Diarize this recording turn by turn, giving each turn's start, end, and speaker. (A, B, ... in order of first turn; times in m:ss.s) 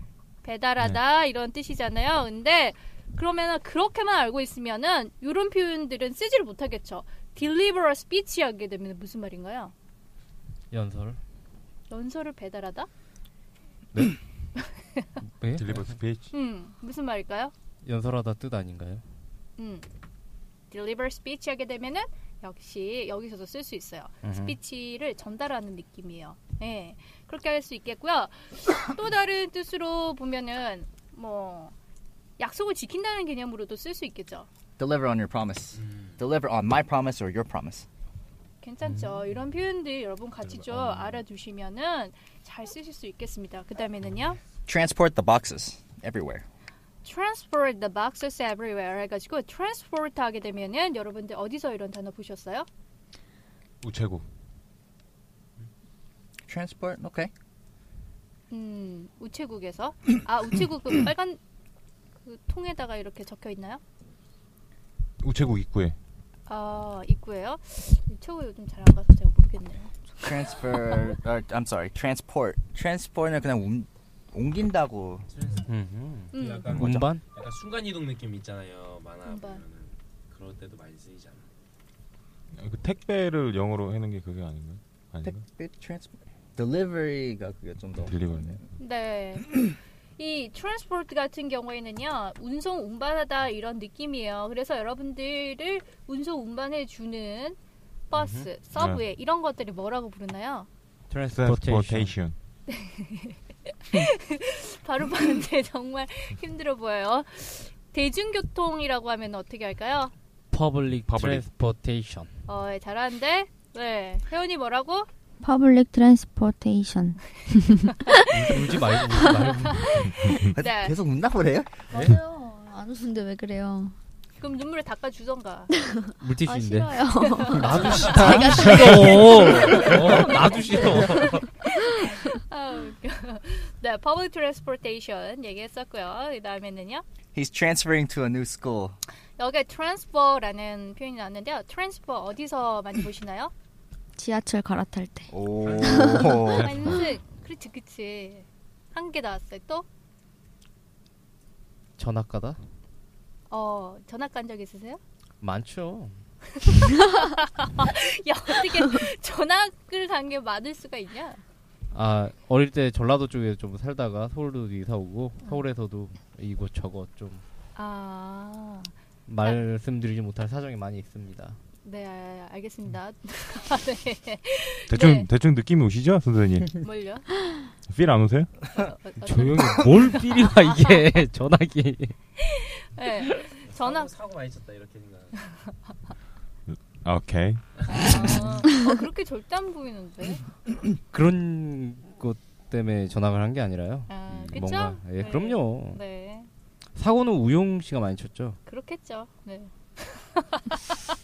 0:00.4-0:09.7 A
0:10.7-0:11.2 B
0:11.9-0:12.9 A
0:14.6-0:15.1 A
0:15.4-0:15.9 B
0:15.5-0:16.3 C
0:16.3-0:17.5 A
0:17.8-0:19.0 B
0:19.6-0:19.9 A
0:20.7-0:31.7 A
0:24.2-0:24.6 B
0:32.4-0:34.5 A
0:34.8-0:37.9 D
0:35.8-0:36.1 E
0:38.6-0:44.4 A
0:40.5-0:41.2 C
0:44.7-0:46.4 D
0:47.0-0:52.7 A
0:53.8-0:54.2 C
0:56.5-0:57.3 D
0:58.5-1:01.4 A
1:02.2-1:03.8 A
1:05.2-1:06.0 C
1:06.5-1:11.0 A
1:10.2-1:15.2 D
1:15.3-1:15.7 E
1:15.7-1:17.2 B
1:16.3-1:21.5 E
1:16.3-1:16.9 A
1:19.3-1:19.6 A
1:22.6-1:25.4 C
1:25.2-1:28.6 D
1:28.0-1:28.6 C
1:28.8-1:37.6 A
1:38.1-1:40.7 A
1:38.2-1:38.5 B
1:41.1-1:42.2 B
1:41.3-1:42.4 C
1:42.7-1:50.1 A
1:50.5-1:52.3 B
1:51.1-1:51.5 C
1:52.5-1:55.1 A
1:55.4-1:58.2 F
1:58.3-2:00.0 B
1:59.4-2:01.0 A
2:00.5-2:01.7 D
2:01.9-2:04.0 F
2:04.4-2:05.7 A
2:05.7-2:09.7 F
2:06.2-2:11.5 B
2:07.2-2:17.0 A
2:08.7-2:09.1 C
2:17.3-2:19.0 D
2:19.4-2:23.5 A
2:24.2-2:26.4 F
2:25.3-2:26.8 D
2:25.6-2:26.1 E
2:26.5-2:26.9 C
2:26.5-2:29.8 A
2:32.0-2:32.6 B
2:33.5-2:35.0 A
2:35.4-2:36.2 B
2:36.6-2:41.4 A
2:41.9-2:47.4 B
2:47.8-2:49.6 A
2:49.3-2:51.6 B
2:51.8-2:55.3 A
2:54.9-2:56.8 C
2:56.8-2:57.3 A
2:57.9-2:58.7 C
2:58.7-3:01.1 A
2:59.2-3:02.2 B
3:02.4-3:04.1 A
3:03.6-3:05.4 E
3:05.4-3:05.7 A
3:06.7-3:08.5 C
3:07.9-3:10.4 A
3:11.1-3:16.0 B
3:14.1-3:16.5 A
3:14.3-3:14.6 E
3:17.0-3:18.6 B
3:18.7-3:20.8 A